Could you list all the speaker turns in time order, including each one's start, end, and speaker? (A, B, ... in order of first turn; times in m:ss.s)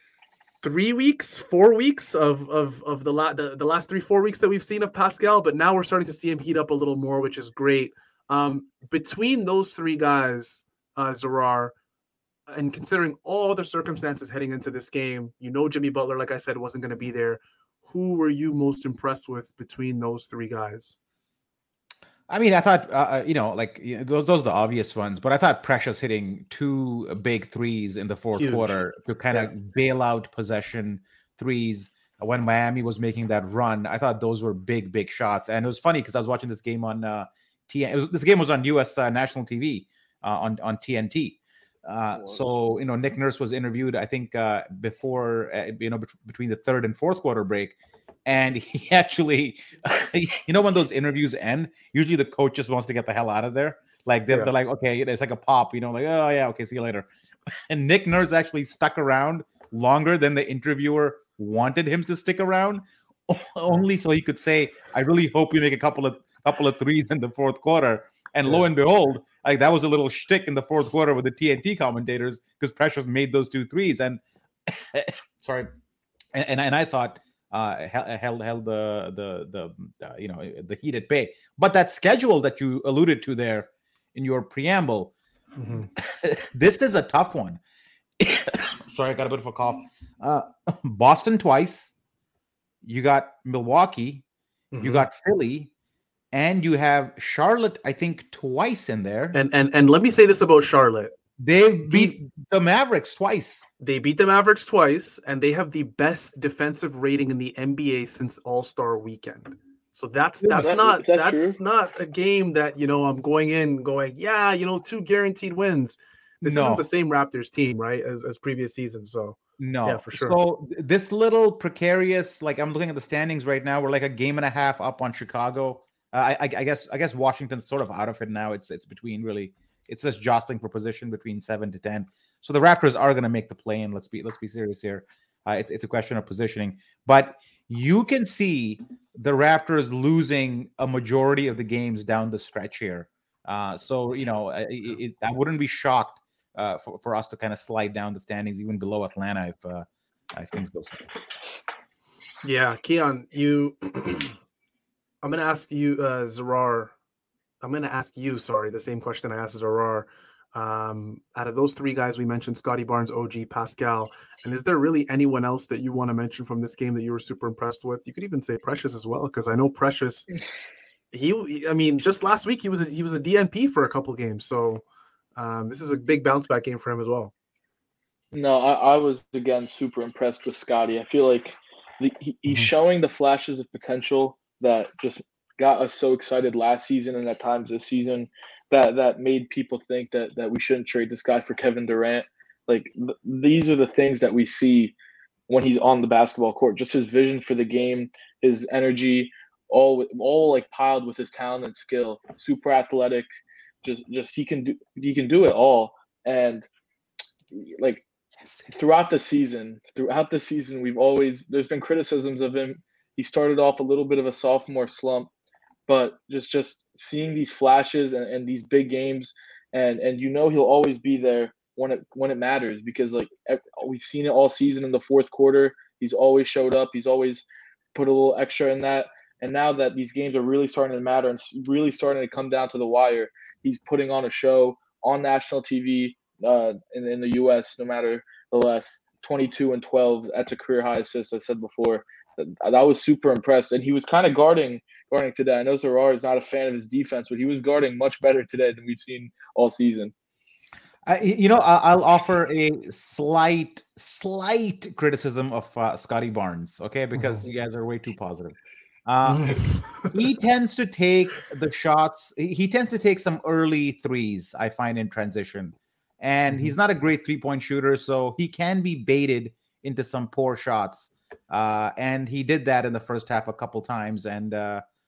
0:00.6-0:11.7 A
0:12.5-0:20.9 A
0:22.3-0:57.1 B
0:28.3-0:28.8 A
0:42.2-0:42.5 C
0:57.7-1:15.7 B
1:16.3-1:25.1 B
1:25.6-1:25.9 A
1:26.0-1:27.6 B
1:28.2-1:31.9 B
1:32.8-1:34.2 B
1:34.7-1:35.0 A
1:34.8-1:35.7 B
1:36.3-1:39.4 B
1:39.3-1:41.1 A
1:41.4-1:43.6 B
1:41.9-1:42.1 A
1:43.8-2:00.4 A
1:50.4-1:51.6 C
1:56.4-1:56.8 B
1:59.6-2:31.1 B
2:32.4-2:34.4 A
2:35.2-2:36.9 A
2:37.6-2:50.3 A
2:51.1-2:54.8 A
2:55.4-2:57.3 A
2:58.3-3:14.9 C
3:15.5-3:23.2 C
3:23.8-3:26.7 C
3:27.5-3:28.0 C
3:28.4-3:29.0 B
3:28.7-3:35.3 C
3:35.9-4:10.1 C
4:11.0-4:34.8 B
4:17.1-4:17.4 A
4:19.2-4:20.1 A
4:26.5-4:26.7 A